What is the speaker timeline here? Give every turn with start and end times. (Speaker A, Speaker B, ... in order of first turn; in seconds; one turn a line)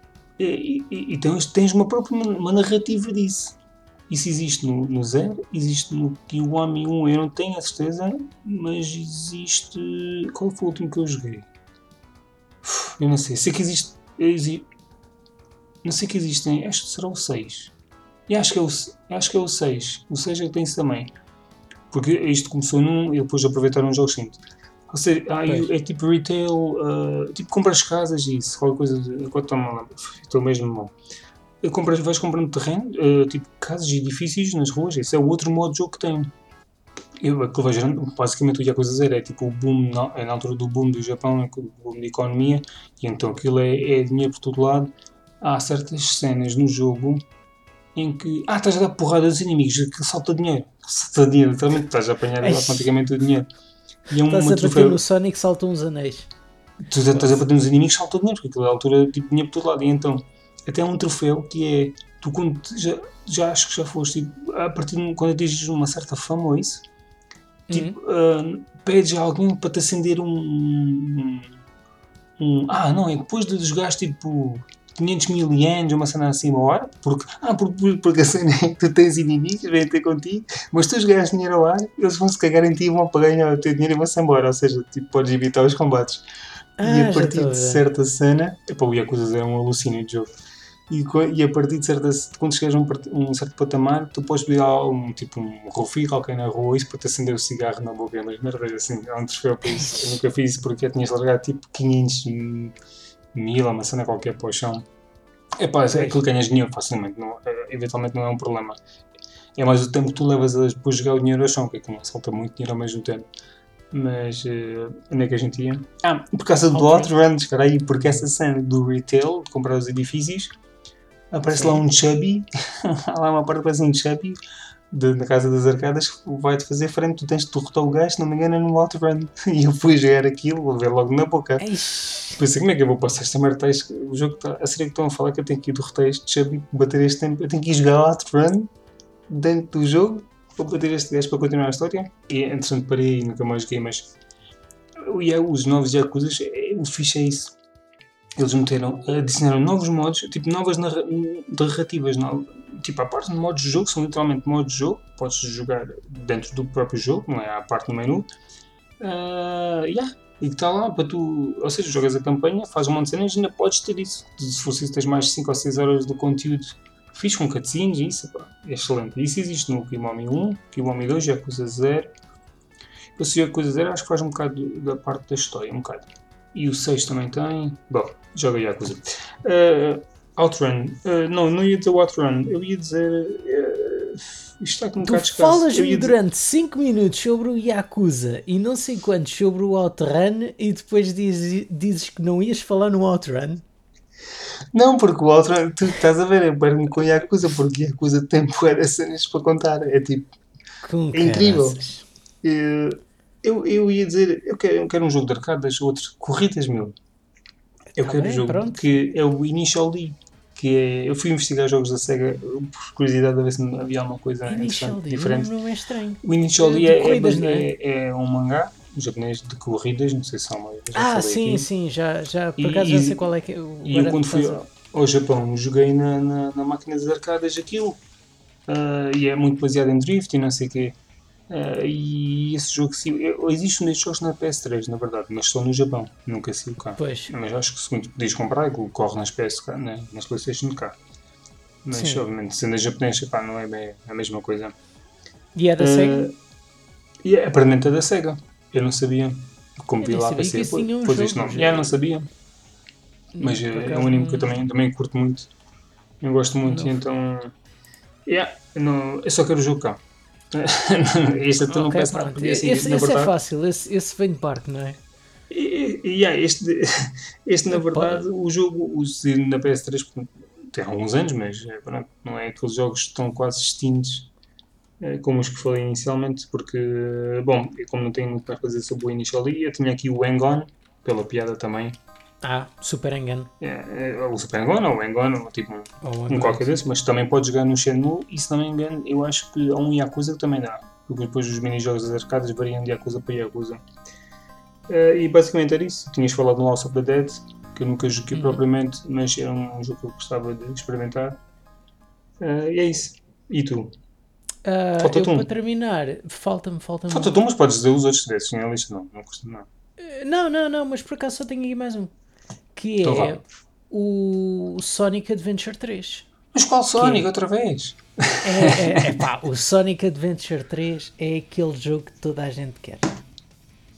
Speaker A: 0.4-3.6
Speaker A: 4.1-11.5
Speaker A: 12.6-14.7
Speaker A: 15.8-17.7
Speaker A: 18.3-21.1
Speaker A: 21.9-30.9
Speaker A: 31.6-36.3
Speaker A: 37.2-47.2
Speaker A: 47.9-53.5
Speaker B: 52.4-52.9
Speaker A: 54.1-55.0
Speaker B: 54.1-56.3
Speaker A: 56.8-66.8
Speaker B: 67.7-68.0
Speaker A: 67.7-71.5
Speaker A: 72.4-86.2
Speaker B: 86.8-87.8
Speaker A: 86.8-90.3
Speaker A: 90.9-102.7
Speaker A: 103.3-104.8
Speaker A: 105.6-108.8
Speaker A: 109.5-113.2
Speaker A: 113.9-120.5
Speaker B: 116.7-117.1
Speaker A: 121.3-124.4
Speaker B: 121.5-121.8
Speaker A: 124.9-131.7
Speaker B: 131.6-132.4
Speaker A: 132.3-138.7
Speaker A: 139.3-144.1
Speaker A: 145.0-147.5
Speaker A: 148.4-158.3
Speaker A: 159.0-172.1
Speaker A: 173.2-186.2
Speaker B: 185.0-193.6
Speaker A: 194.7-200.3
Speaker B: 200.8-202.1
Speaker A: 201.1-201.8
Speaker A: 202.4-206.9
Speaker A: 207.9-215.5
Speaker B: 208.0-208.9
Speaker B: 214.4-217.7
Speaker A: 216.2-221.7
Speaker B: 220.9-224.6
Speaker A: 222.6-223.3
Speaker A: 223.8-228.0
Speaker A: 228.7-230.9
Speaker A: 231.5-241.0
Speaker B: 237.0-237.3
Speaker A: 241.8-244.7
Speaker B: 241.9-242.2
Speaker B: 245.6-246.3
Speaker A: 245.8-246.3
Speaker A: 247.2-252.3
Speaker B: 250.0-252.0
Speaker B: 253.3-254.6
Speaker A: 253.4-255.5
Speaker A: 256.2-257.5
Speaker B: 256.6-257.0
Speaker A: 258.2-260.0
Speaker A: 260.5-263.3
Speaker B: 261.7-265.0
Speaker A: 265.5-274.3
Speaker B: 267.7-268.3
Speaker A: 275.0-282.0
Speaker B: 282.4-283.5
Speaker A: 283.6-293.8
Speaker B: 286.0-286.8
Speaker A: 294.9-301.4
Speaker B: 298.3-298.6
Speaker A: 302.4-303.9
Speaker B: 304.6-307.4
Speaker A: 305.0-305.5
Speaker A: 307.1-309.7
Speaker B: 310.0-312.1
Speaker B: 312.7-316.3
Speaker A: 313.0-313.4
Speaker A: 316.5-319.3
Speaker B: 316.9-317.2
Speaker B: 318.4-323.2